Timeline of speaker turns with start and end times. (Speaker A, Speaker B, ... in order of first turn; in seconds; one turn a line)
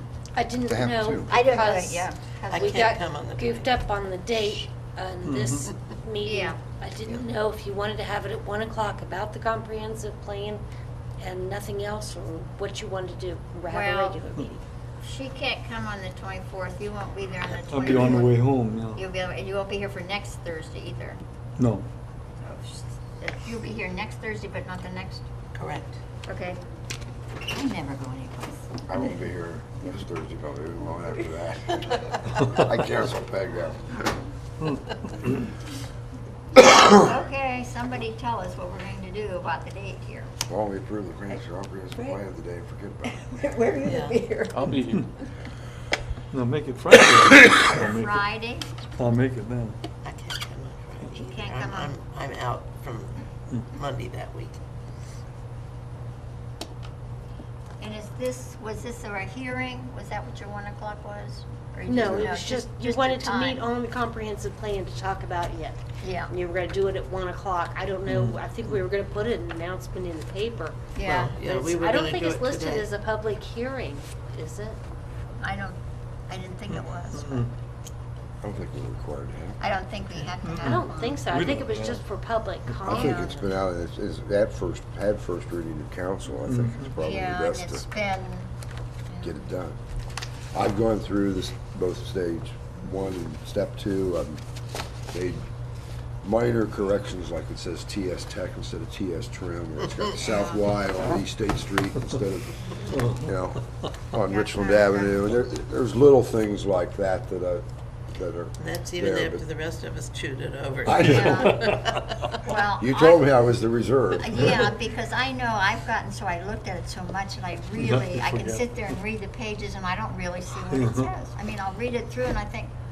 Speaker A: 0.3-10.6
Speaker B: 0.7-1.3
Speaker C: 1.3-2.9
Speaker D: 2.5-3.9
Speaker E: 5.2-5.7
Speaker C: 6.2-6.6
Speaker A: 11.2-14.6
Speaker C: 13.7-14.2
Speaker C: 15.0-18.4
Speaker E: 17.5-19.0
Speaker C: 18.9-21.2
Speaker E: 21.6-21.9
Speaker C: 22.4-25.2
Speaker D: 25.5-26.0
Speaker C: 26.2-26.6
Speaker C: 27.5-28.8
Speaker B: 28.9-34.1
Speaker C: 36.6-40.3
Speaker B: 40.5-43.2
Speaker C: 43.0-44.8
Speaker D: 43.8-44.2
Speaker E: 44.7-45.0
Speaker E: 46.3-48.2
Speaker C: 47.8-48.6
Speaker E: 49.0-49.8
Speaker D: 50.0-54.6
Speaker C: 51.1-51.9
Speaker C: 57.8-63.6
Speaker A: 61.9-70.9
Speaker C: 66.0-66.3
Speaker E: 68.1-68.4
Speaker C: 70.9-71.3
Speaker D: 71.0-72.9
Speaker A: 71.4-74.8
Speaker C: 75.4-75.8
Speaker C: 76.3-77.5
Speaker E: 76.7-77.5
Speaker B: 78.4-79.6
Speaker C: 79.6-81.3
Speaker E: 80.4-82.0
Speaker A: 80.6-83.6
Speaker B: 82.9-87.8
Speaker C: 82.9-83.3
Speaker E: 86.5-86.9
Speaker C: 87.0-88.5
Speaker C: 89.1-89.4
Speaker B: 89.2-89.8
Speaker B: 90.5-94.4
Speaker B: 95.1-95.5
Speaker B: 96.2-109.4
Speaker C: 100.2-100.7
Speaker E: 103.0-103.3
Speaker C: 104.3-105.2
Speaker D: 108.6-112.5
Speaker B: 110.8-111.6
Speaker C: 111.0-111.6
Speaker C: 112.3-113.3
Speaker B: 112.8-114.6
Speaker C: 114.2-122.7
Speaker E: 117.8-118.6
Speaker E: 120.7-121.1